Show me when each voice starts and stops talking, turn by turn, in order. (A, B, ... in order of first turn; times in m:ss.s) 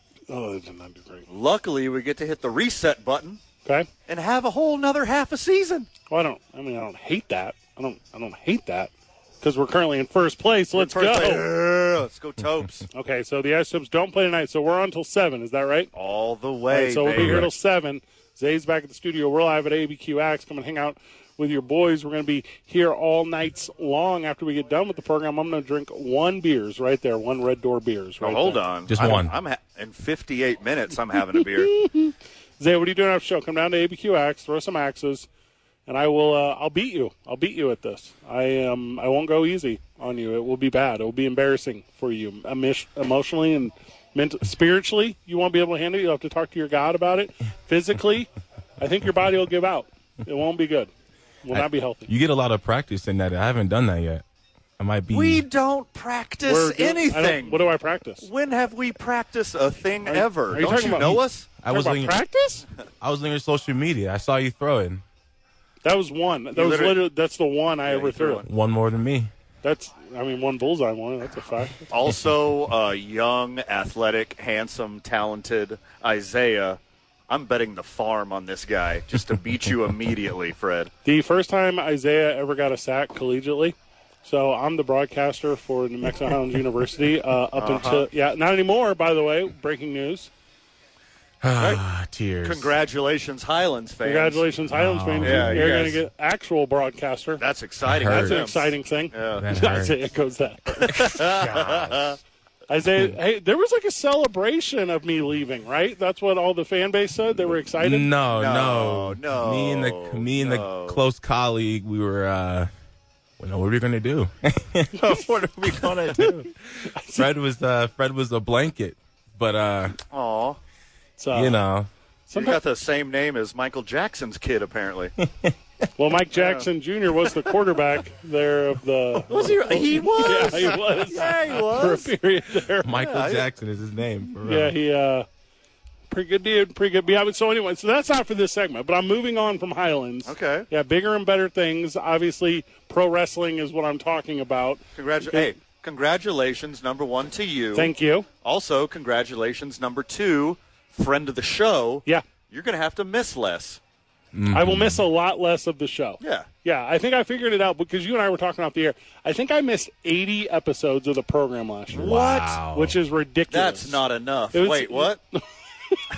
0:00.3-0:01.3 A
0:01.3-0:03.4 B
0:04.1-0:05.9 B
0:06.1-0:11.4 A
0:10.8-0:12.9 B
0:12.9-0:15.9 A
0:15.9-0:17.5 B
0:16.7-0:28.6 A
0:17.2-0:17.5 C
0:28.2-0:31.8 B
0:28.9-0:29.3 C
0:31.7-0:35.3 A
0:35.8-0:48.3 A
0:48.8-0:50.9 A
0:51.4-0:52.1 A
0:51.5-0:54.2 C
0:54.8-0:55.4 C
0:55.1-0:57.6 B
0:56.4-0:58.3 A
0:58.2-1:01.5 B
1:00.0-1:02.6 A
1:00.8-1:02.2 C
1:03.0-1:05.0 C
1:05.8-1:08.4 A
1:06.5-1:07.0 B
1:07.9-1:08.5 B
1:08.4-1:09.3 C
1:09.6-1:11.9 A
1:11.9-1:20.9 B
1:21.0-1:30.3 A
1:27.6-1:28.1 B
1:31.4-1:32.7 C
1:32.4-1:34.4 B
1:34.0-1:37.4 A
1:34.7-1:36.0 C
1:35.2-1:36.0 B
1:37.4-1:39.4 B
1:37.8-1:38.5 C
1:38.1-1:41.9 A
1:39.3-1:40.0 C
1:40.7-1:42.2 B
1:40.9-1:41.7 C
1:42.7-1:48.1 A
1:47.8-1:52.7 C
1:48.3-1:51.0 B
1:53.4-2:00.0 C
1:56.2-1:57.3 A
2:00.1-2:00.6 B
2:01.2-2:01.6 A
2:01.3-2:01.9 C
2:02.3-2:02.6 A
2:02.3-2:05.1 B
2:06.0-2:13.0 A
2:06.3-2:06.6 B
2:09.3-2:12.1 B
2:12.8-2:14.7 C
2:13.0-2:13.4 B
2:14.4-2:15.2 A
2:16.1-2:25.5 A
2:20.2-2:20.7 B
2:25.0-2:33.8 B
2:27.7-2:28.3 A
2:34.3-2:35.0 C
2:34.5-2:44.0 A
2:36.2-2:36.5 B
2:41.9-2:43.0 C
2:41.9-2:42.6 B
2:43.5-2:45.2 B
2:44.5-2:46.0 A